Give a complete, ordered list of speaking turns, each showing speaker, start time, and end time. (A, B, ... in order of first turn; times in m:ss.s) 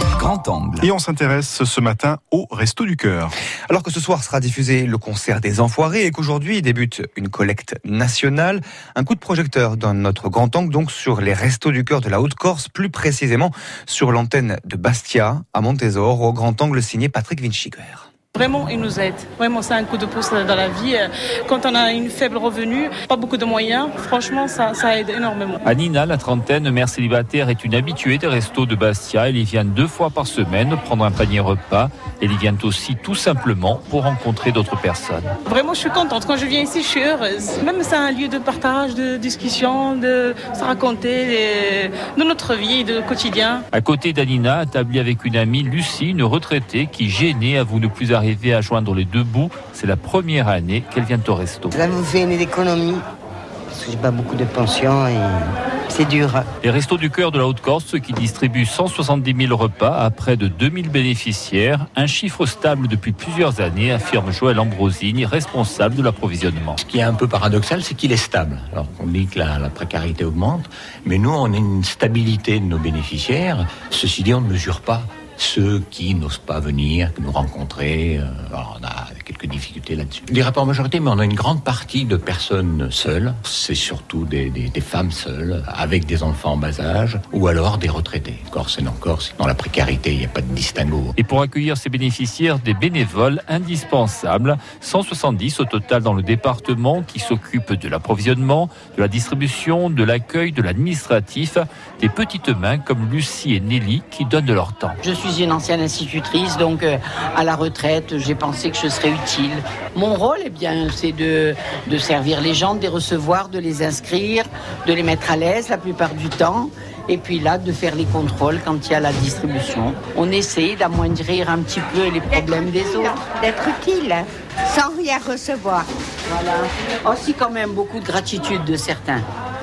0:00.2-0:03.3 A
0:03.7-0:18.1 B
0:18.3-0:25.6 C
0:25.6-0:35.3 D
0:35.5-0:43.6 C
0:43.7-0:51.7 D
0:51.7-0:53.0 E
0:53.7-0:56.5 E
0:56.6-1:06.8 D
1:06.8-1:31.1 F
1:31.2-1:45.0 D
1:45.0-2:03.3 G
2:03.0-2:05.8 H
2:06.3-2:09.2 G